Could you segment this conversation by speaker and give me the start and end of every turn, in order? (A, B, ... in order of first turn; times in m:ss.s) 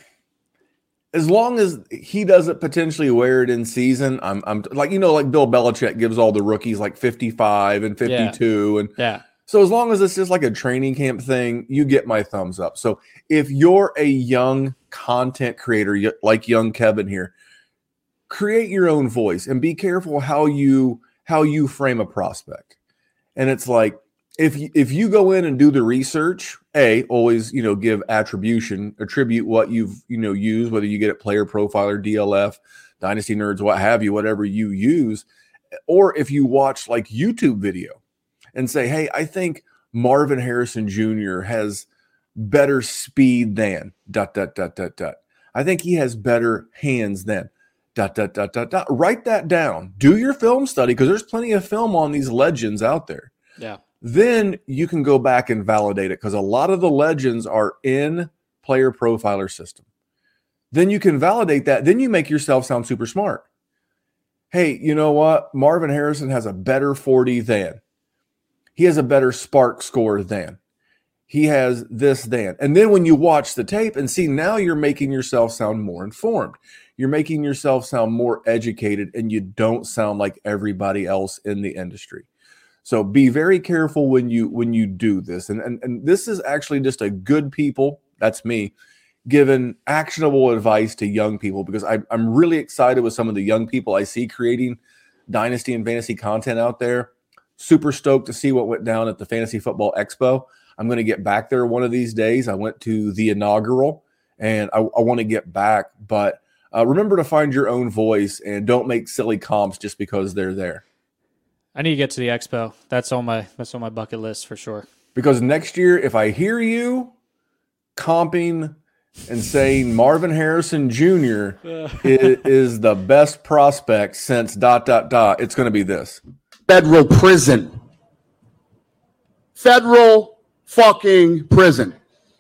0:01.1-0:08.9 A
0:08.0-0:08.4 B
0:09.0-0:09.2 B
0:09.5-0:17.3 A
0:18.3-0:22.7 A
0:23.4-0:35.2 A
0:35.9-0:38.0 A
0:38.5-0:53.3 A
0:54.0-0:59.8 A
1:00.7-1:03.4 A
1:04.5-1:07.8 A
1:08.8-1:10.6 A
1:11.3-1:22.3 A
1:22.8-1:28.7 A
1:29.3-1:50.8 A
1:51.7-1:54.8 B
1:55.1-1:57.1 A
1:58.0-2:06.2 A
2:06.7-2:07.7 C
2:09.6-2:11.9 C